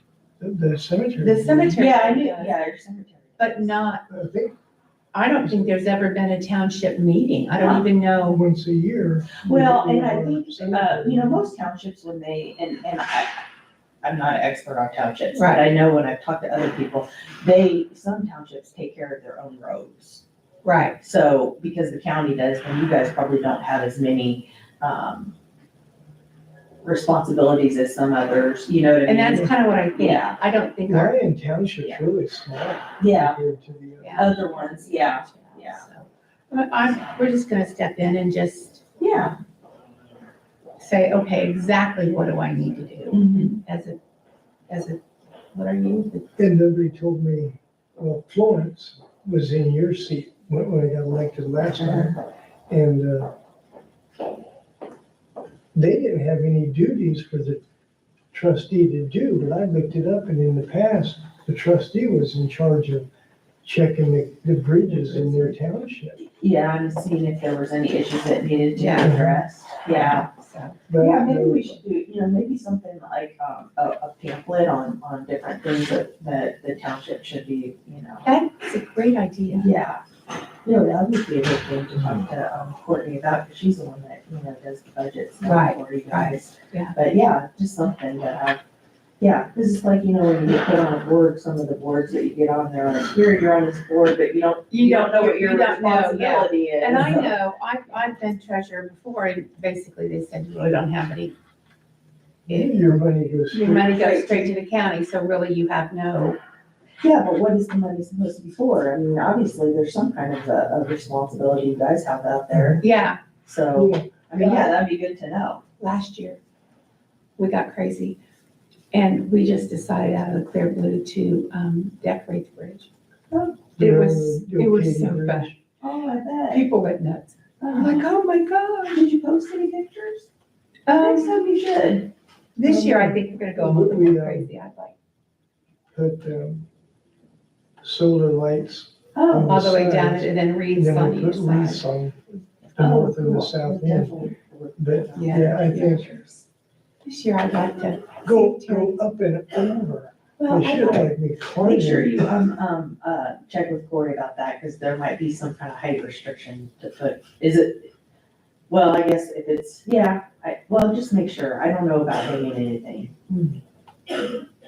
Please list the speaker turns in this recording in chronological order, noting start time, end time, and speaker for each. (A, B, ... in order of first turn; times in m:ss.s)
0:00.4-0:01.8 A
0:01.2-0:02.6 B
0:01.8-0:03.8 C
0:03.4-0:04.0 B
0:04.1-0:04.5 A
0:05.1-0:08.4 B
0:05.4-0:05.7 A
0:07.5-0:07.9 C
0:08.2-0:11.4 A
0:09.4-0:13.4 C
0:14.0-0:20.2 C
0:15.3-0:15.7 B
0:20.6-0:21.0 B
0:21.0-0:25.3 C
0:26.8-0:30.4 C
0:29.0-0:31.2 B
0:30.9-0:34.4 A
0:33.0-0:33.4 C
0:34.0-0:38.8 B
0:34.2-0:35.8 C
0:39.0-0:39.4 C
0:40.8-0:44.0 B
0:42.1-0:42.4 C
0:43.1-0:43.6 C
0:44.7-0:46.3 B
0:46.4-0:52.1 A
0:51.8-0:52.2 C
0:52.7-0:53.3 A
0:55.7-0:57.6 A
0:58.3-1:03.1 A
1:03.6-1:06.2 A
1:04.8-1:05.6 B
1:06.4-1:10.3 C
1:08.7-1:09.2 B
1:09.0-1:09.4 A
1:09.8-1:10.8 B
1:10.9-1:11.8 A
1:11.0-1:18.3 C
1:18.2-1:19.7 B
1:19.5-1:20.0 C
1:20.6-1:28.6 C
1:25.4-1:26.9 B
1:29.2-1:37.3 C
1:34.7-1:41.3 B
1:37.0-1:37.2 A
1:42.5-1:43.9 A
1:42.5-1:42.7 B
1:43.5-1:44.5 C
1:43.5-1:46.4 B
1:47.0-1:52.8 C
1:52.5-1:52.8 A
1:52.8-1:53.2 B
1:53.4-1:55.6 C
1:53.7-1:54.7 A
1:55.8-1:56.4 B
1:57.4-1:58.2 B
1:58.9-2:02.9 B
2:03.3-2:03.6 C
2:03.8-2:05.6 A
2:03.8-2:05.5 B
2:05.8-2:06.6 C
2:06.5-2:08.1 B
2:07.6-2:10.3 C
2:10.9-2:11.4 B
2:11.0-2:12.1 C
2:12.6-2:14.9 B
2:12.6-2:14.5 A
2:15.9-2:16.6 A
2:17.8-2:22.2 A
2:19.1-2:19.6 C
2:19.4-2:21.8 B
2:22.7-2:26.4 C
2:22.8-2:26.1 A
2:25.2-2:25.9 B
2:27.0-2:29.0 B
2:28.2-2:32.4 A
2:30.4-2:31.0 B
2:30.6-2:37.9 C
2:38.7-2:43.2 C